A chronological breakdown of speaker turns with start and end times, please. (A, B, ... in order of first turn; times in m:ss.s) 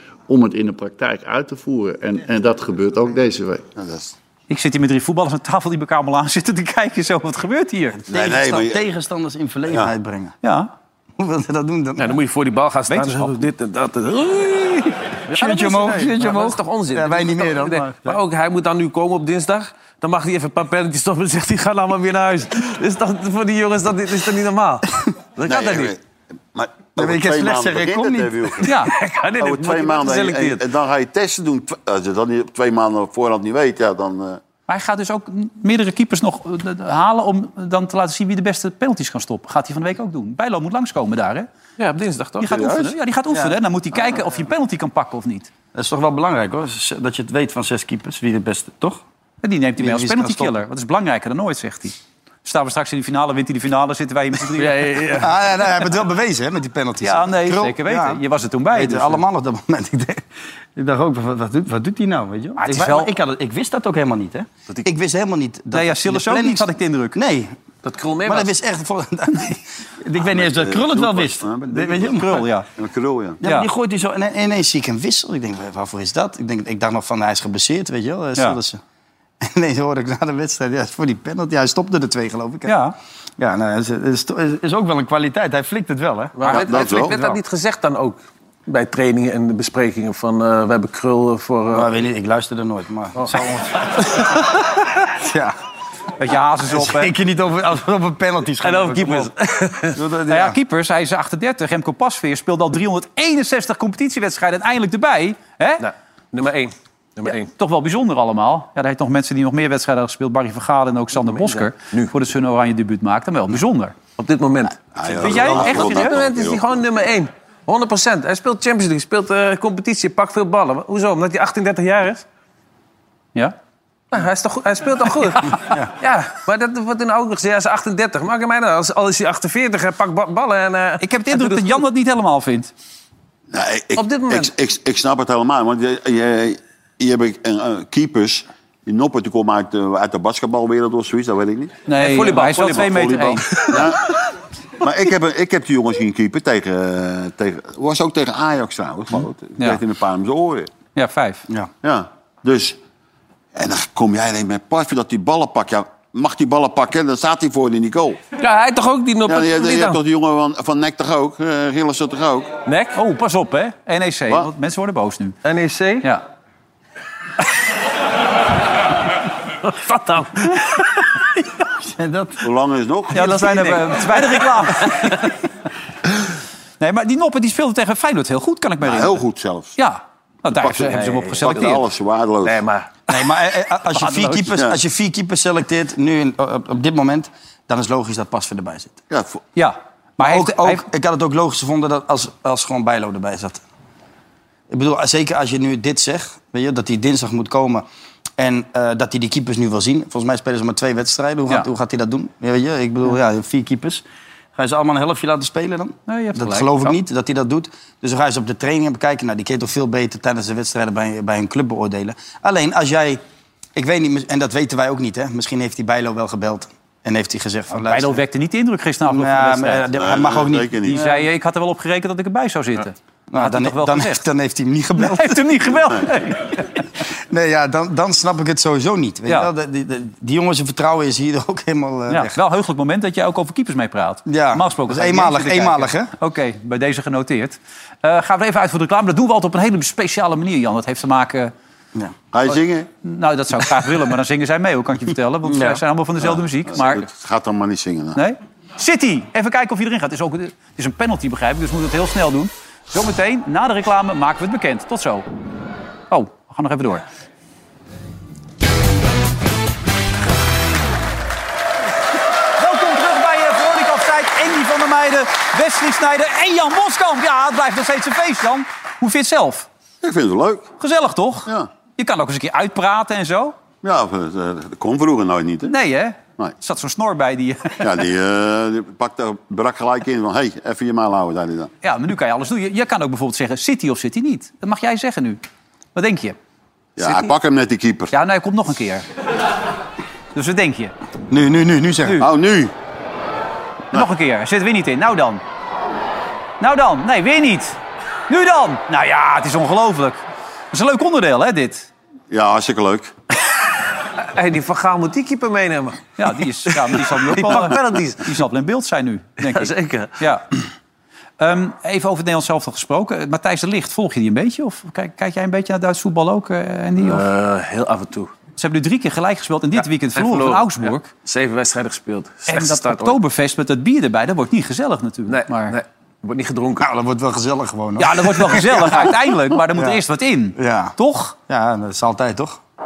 0:00.3-0:03.6 A
0:03.8-0:04.1 B
0:04.5-0:08.0 C
0:08.1-0:10.3 D
0:08.1-0:08.8 B
0:10.4-0:10.7 C
0:11.2-0:12.1 D
0:12.0-0:25.9 E
0:12.9-0:13.4 C
0:15.3-0:18.2 D
0:25.4-0:26.0 B
0:26.5-0:28.7 B
0:27.0-0:28.6 D
0:28.6-0:28.9 C
0:28.7-0:30.6 E
0:29.4-0:34.4 B
0:34.7-0:41.5 C
0:41.8-0:42.9 E
0:42.4-0:45.5 C
0:43.3-0:43.6 D
0:45.7-0:49.0 D
0:49.4-0:55.0 C
0:49.8-0:50.5 D
0:54.6-0:55.3 E
0:55.0-0:58.2 D
0:57.0-0:59.2 C
0:58.7-1:00.2 D
1:00.8-1:07.5 D
1:02.6-1:03.1 C
1:05.7-1:07.2 C
1:07.8-1:08.5 E
1:08.2-1:12.4 D
1:10.2-1:12.2 B
1:12.1-1:12.7 C
1:12.8-1:13.4 B
1:13.4-1:18.8 D
1:13.4-1:13.7 C
1:19.4-1:22.8 D
1:22.6-1:22.9 C
1:23.4-1:27.4 D
1:26.4-1:31.9 E
1:26.5-1:27.2 B
1:31.7-1:35.5 D
1:36.2-1:37.1 C
1:36.7-1:39.3 D
1:38.6-1:40.0 E
1:39.9-1:40.6 D
1:40.3-1:45.8 C
1:45.8-1:47.5 E
1:47.2-1:54.0 C
1:51.3-1:52.1 E
1:54.2-2:02.2 E
1:54.9-1:56.7 B
1:55.1-1:56.2 C
2:04.1-2:11.8 E
2:11.0-2:12.7 C
2:13.5-2:21.8 B
2:14.0-2:14.5 E
2:21.9-2:23.5 C
2:22.0-2:24.0 E
2:22.4-2:23.0 B
2:23.7-2:24.0 B
2:24.8-2:30.7 B
2:30.9-2:31.4 C
2:31.8-2:32.8 B
2:33.5-2:38.2 B
2:38.4-2:40.0 E
2:39.2-2:42.5 B
2:42.6-2:43.0 E
2:42.9-2:45.4 C
2:45.4-2:46.1 E
2:49.6-2:51.1 E
2:51.8-2:52.4 D
2:52.4-2:53.4 B
2:53.1-2:55.3 C
2:53.2-2:54.4 E
2:56.8-2:59.2 C
2:58.8-2:59.8 B
2:59.8-3:01.8 C
3:00.6-3:02.6 B
3:00.7-3:01.7 E
3:02.4-3:02.9 E
3:03.1-3:09.0 D
3:03.9-3:04.5 C
3:09.1-3:09.4 B
3:09.6-3:10.8 C
3:10.2-3:13.6 D
3:14.7-3:17.8 D
3:18.4-3:24.0 D
3:24.6-3:33.2 D
3:26.1-3:26.9 C
3:33.7-3:38.2 D
3:37.7-3:39.9 C
3:39.1-3:41.0 D
3:40.0-3:41.0 B
3:40.8-3:44.2 C
3:43.3-3:45.4 D
3:45.0-3:46.8 C
3:47.3-3:52.4 D
3:52.1-4:01.5 C
3:54.3-3:56.1 D
4:02.3-4:02.9 B
4:03.0-4:07.1 C
4:05.4-4:05.8 D
4:06.2-4:08.2 B
4:08.2-4:15.3 C
4:16.1-4:17.0 C
4:22.6-4:29.7 C
4:30.0-4:30.7 B
4:30.8-4:33.6 C
4:33.8-4:35.7 B
4:35.6-4:38.0 C
4:37.8-4:41.7 B
4:41.8-4:45.4 C
4:45.9-4:46.4 C
4:47.0-4:48.1 B
4:47.0-4:47.3 C
4:48.1-4:49.0 C
4:50.3-4:50.9 C
4:51.3-4:52.2 D
4:52.2-4:52.7 B
4:53.9-4:55.4 C
4:56.6-5:01.9 C
5:02.3-5:03.1 B
5:04.2-5:08.3 E
5:06.2-5:10.4 C
5:09.5-5:10.1 E
5:11.4-5:17.2 C
5:17.0-5:18.3 E
5:18.6-5:21.1 C
5:20.1-5:23.2 E
5:22.5-5:25.8 C
5:25.3-5:26.9 E
5:26.8-5:29.2 D
5:28.0-5:31.4 C
5:29.7-5:30.0 D
5:30.6-5:30.9 D
5:31.5-5:32.6 D